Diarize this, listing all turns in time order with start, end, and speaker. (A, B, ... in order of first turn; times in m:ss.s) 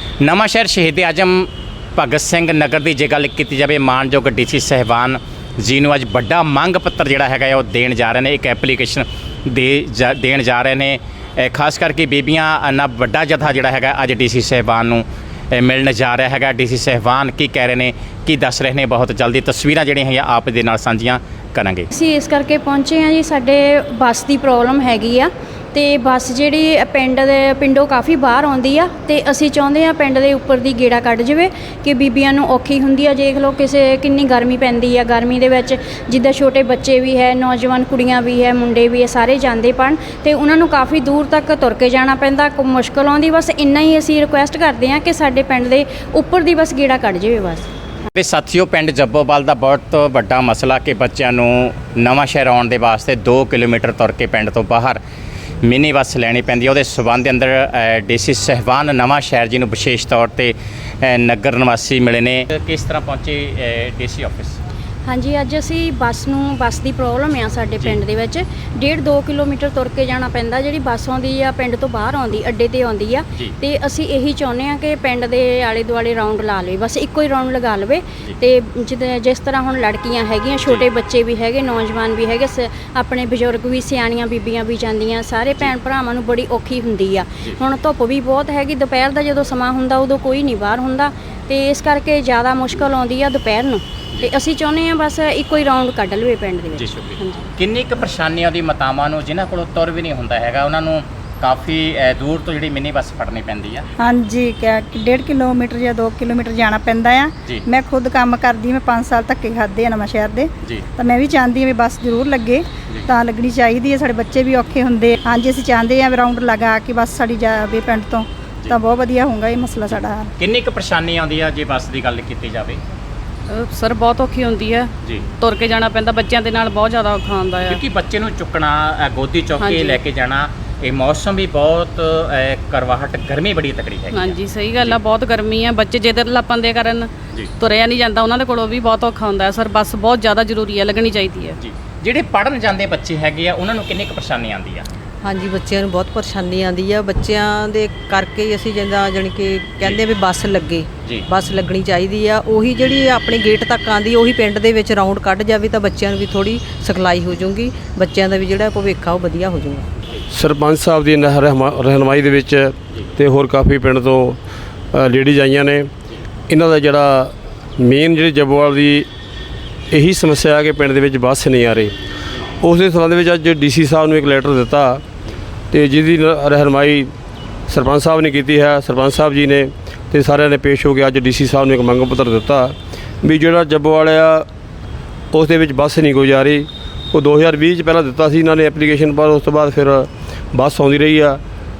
0:00.2-0:21.9 A
0:21.9-0:47.7 B
0:48.1-0:55.0 A
0:55.6-1:04.6 A
1:05.0-1:37.5 B
1:36.8-1:43.9 A
1:44.0-2:00.3 C
2:00.4-2:02.8 A
2:03.5-2:07.8 D
2:07.6-2:15.0 A
2:09.6-2:10.0 D
2:14.1-2:21.6 D
2:21.6-2:24.9 A
2:25.2-2:39.9 E
2:40.3-2:44.4 F
2:44.9-2:45.9 F
2:46.5-2:49.1 F
2:49.9-2:52.0 F
2:52.6-2:55.0 F
2:55.7-2:57.1 F
2:57.7-3:04.5 F
3:05.3-3:11.4 F